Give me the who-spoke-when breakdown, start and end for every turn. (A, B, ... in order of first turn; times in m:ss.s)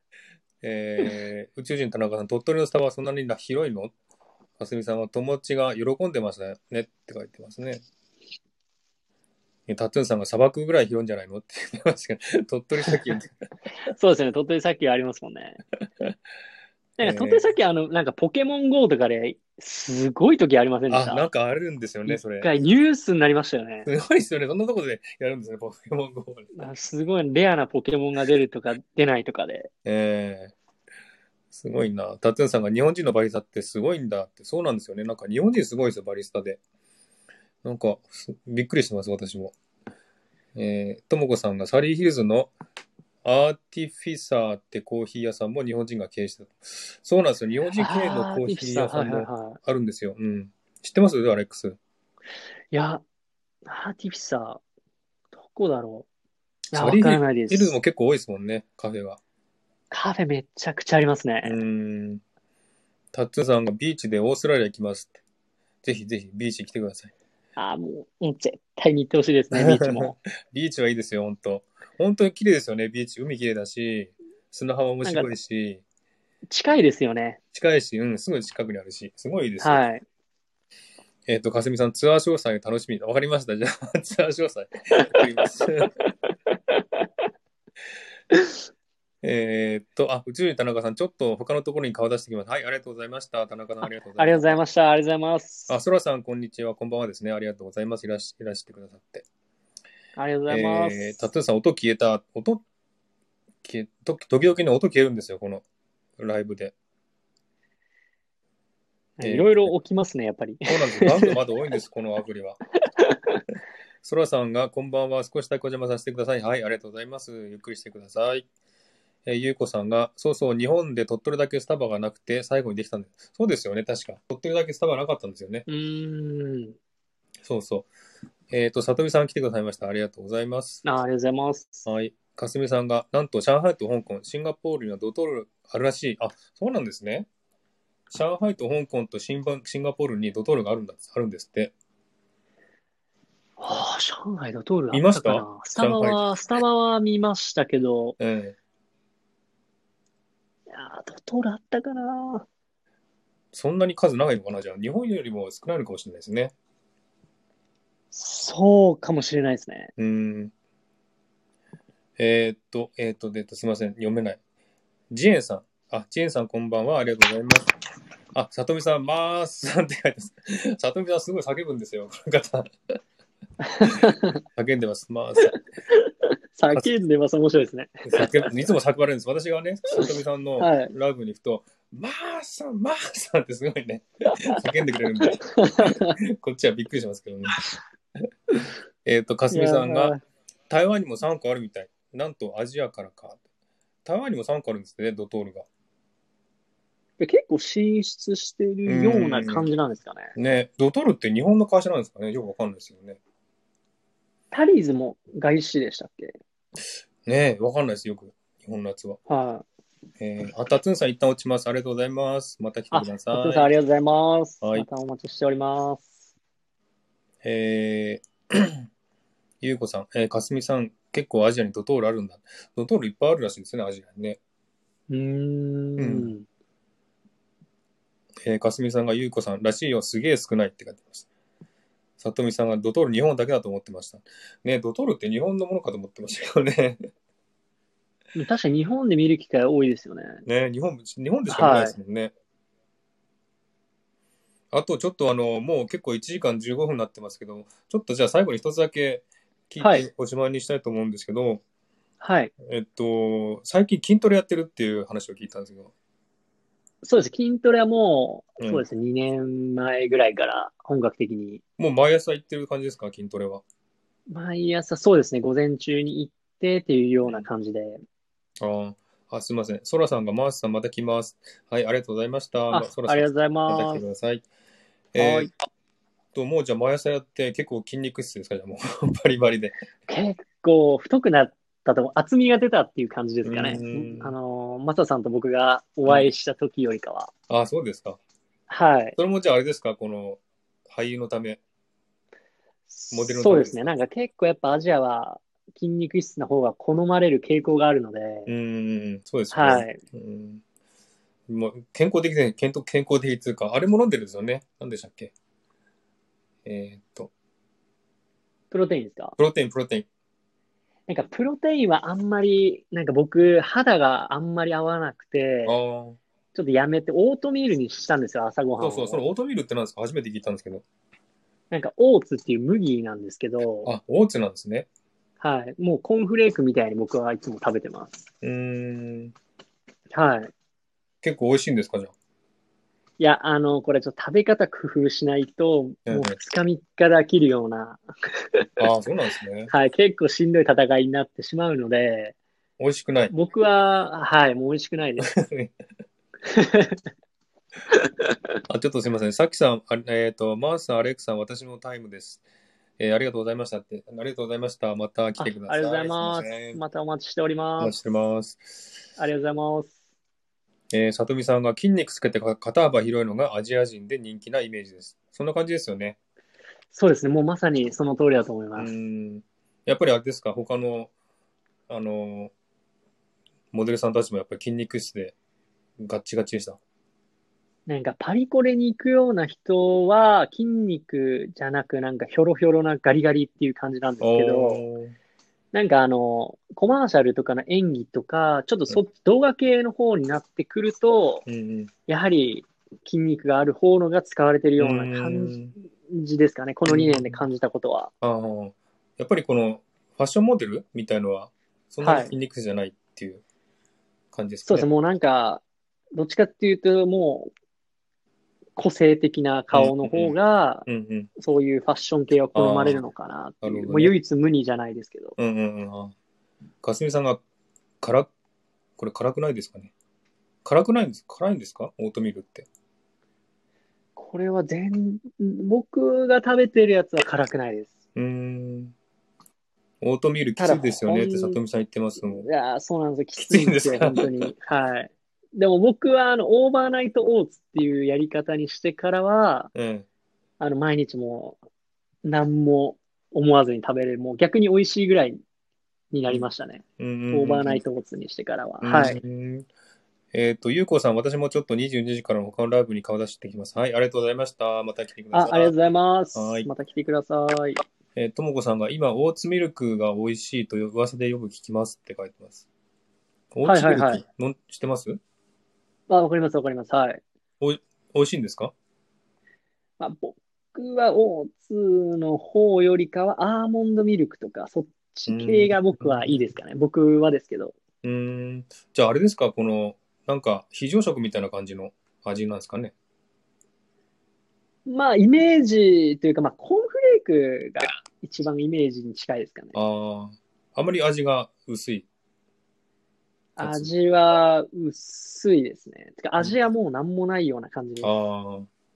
0:00.6-0:03.9 A
0:04.6-0:07.8 A
0:09.7-0:13.3 A
0:13.8-0:15.6 B
0:17.0-0:21.2 B
0:17.0-0:17.4 A
0:20.9-0:22.5 A
0:22.1-0:23.9 B
0:23.8-0:26.5 A
0:26.6-0:29.7 B
0:29.8-0:30.5 A
0:31.5-0:36.6 A
0:37.6-0:39.6 A
0:40.5-0:42.5 A
0:43.2-0:51.8 A
0:47.8-0:49.6 B
0:52.7-0:53.0 B
0:53.6-0:54.6 B
0:55.4-0:56.1 B
0:56.7-0:57.8 B
0:56.7-0:59.2 A
0:59.9-1:01.6 B
1:01.4-1:02.2 A
1:03.1-1:05.2 A
1:05.8-1:07.1 A
1:07.6-1:10.2 B
1:09.5-1:15.8 A
1:15.0-1:15.3 B
1:16.5-1:17.4 B
1:17.5-1:19.8 A
1:19.6-1:20.0 B
1:21.3-1:25.9 A
1:26.5-1:27.0 B
1:28.3-1:28.6 B
1:29.2-1:34.6 A
1:34.2-1:35.7 B
1:35.7-1:39.3 A
1:40.2-1:41.2 B
1:40.5-1:42.6 A
1:43.6-1:45.6 A
1:46.2-1:46.7 A
1:49.2-1:51.4 B
1:49.2-1:49.7 A
1:50.7-1:52.6 A
1:53.0-1:53.4 B
1:54.0-1:58.5 A
1:59.3-2:05.6 A
2:05.7-2:06.8 B
2:07.4-2:07.9 A
2:08.5-2:10.8 A
2:10.8-2:11.9 B
2:11.9-2:17.3 A
2:18.1-2:21.7 A
2:23.6-2:28.2 B
2:24.9-2:26.3 A
2:28.2-2:28.6 A
2:30.7-2:32.5 B
2:33.5-2:36.5 A
2:38.1-2:39.9 B
2:40.0-2:40.5 A
2:42.2-2:44.4 A
2:45.1-2:47.7 A
2:48.3-2:52.7 A
2:53.6-2:54.4 B
2:54.6-2:55.6 A
2:55.5-2:58.5 B
2:58.1-3:07.6 A
3:00.0-3:00.9 B
3:05.1-3:06.2 B
3:09.0-3:10.1 A
3:09.5-3:10.2 B
3:10.7-3:13.4 A
3:14.0-3:15.7 A
3:17.2-3:20.3 B
3:18.9-3:19.7 A
3:20.4-3:23.2 A
3:24.5-3:26.3 B
3:27.2-3:29.2 A
3:29.3-3:29.7 B
3:30.2-3:33.7 A
3:32.9-3:36.1 B
3:37.4-3:38.9 A
3:39.6-3:44.4 A
3:45.1-3:46.5 B
3:46.0-3:46.3 A
3:48.4-3:51.3 A
3:52.2-3:57.0 A
3:58.4-4:00.4 B
4:00.5-4:02.3 A
4:01.5-4:02.0 B
4:04.7-4:11.6 A
4:09.8-4:10.1 B
4:12.2-4:12.5 B
4:12.6-4:15.9 A
4:17.0-4:21.6 B
4:21.8-4:23.6 A
4:24.3-4:28.0 B
4:28.6-4:34.4 A
4:32.7-4:34.0 B
4:35.1-4:35.5 A
4:35.2-4:35.5 B
4:36.4-4:39.8 A
4:40.1-4:47.3 B
4:43.4-4:44.3 A
4:47.5-4:48.2 A
4:48.7-4:49.2 B
4:49.2-4:51.6 A
4:52.9-4:58.5 B
4:53.1-4:53.8 A
4:58.5-5:00.6 A
4:59.5-5:00.0 B
5:01.5-5:05.3 A
5:06.6-5:07.3 A
5:08.7-5:09.4 B
5:09.4-5:10.1 A
5:11.1-5:15.8 B
5:15.7-5:16.2 A
5:16.5-5:19.2 B
5:18.8-5:20.8 A
5:21.7-5:23.9 B
5:23.8-5:24.9 A
5:25.4-5:28.2 B
5:28.4-5:29.3 A
5:30.1-5:30.5 B
5:31.2-5:32.1 A
5:33.2-5:38.0 B
5:36.1-5:36.4 A
5:38.8-5:39.7 A
5:39.7-5:42.4 B
5:42.8-5:43.3 A
5:43.3-5:45.3 B
5:45.2-5:45.7 A
5:46.5-5:47.0 B
5:47.9-5:48.4 B
5:48.7-5:52.4 A
5:53.0-5:56.8 A
5:55.4-5:58.0 B
5:57.8-5:58.9 A
5:59.2-6:00.0 B
6:00.9-6:06.2 A
6:06.9-6:08.9 B
6:08.8-6:11.1 A
6:11.9-6:12.5 A
6:13.7-6:15.4 A
6:16.0-6:16.8 A
6:17.9-6:24.8 B
6:24.2-6:25.2 A
6:25.7-6:31.5 B
6:31.5-6:31.9 A
6:32.1-6:38.1 B
6:34.8-6:35.7 A
6:36.9-6:37.4 A
6:38.2-6:43.4 A
6:42.0-6:42.3 B
6:44.3-6:44.9 A
6:44.7-6:45.6 B
6:46.1-6:47.5 B
6:48.8-6:55.4 B
6:49.7-6:50.4 A
6:50.9-6:51.3 A
6:52.6-6:53.0 A
6:53.6-6:54.1 A
6:55.4-6:56.1 A
6:56.8-6:57.4 A
6:58.0-6:58.3 A
6:59.0-6:59.9 A
7:00.6-7:02.7 A
7:04.2-7:07.9 B
7:08.2-7:08.9 A
7:10.0-7:12.5 A
7:10.6-7:11.6 B
7:12.2-7:19.7 B
7:13.4-7:14.5 A
7:19.7-7:20.1 A
7:20.6-7:21.6 B
7:22.2-7:25.4 B
7:26.1-7:29.2 B
7:27.0-7:27.8 A
7:28.8-7:29.7 A
7:30.3-7:35.7 A
7:35.3-7:37.8 B
7:36.4-7:36.7 A
7:38.2-7:42.6 A
7:43.5-7:45.2 A
7:43.6-7:44.2 B
7:46.1-7:47.2 B
7:47.6-7:48.7 A
7:50.0-7:57.8 B
7:55.3-7:56.3 A
7:58.0-8:02.9 A
8:04.9-8:09.8 B
8:09.7-8:12.1 A
8:13.6-8:18.1 B
8:13.6-8:13.9 A
8:18.0-8:18.7 A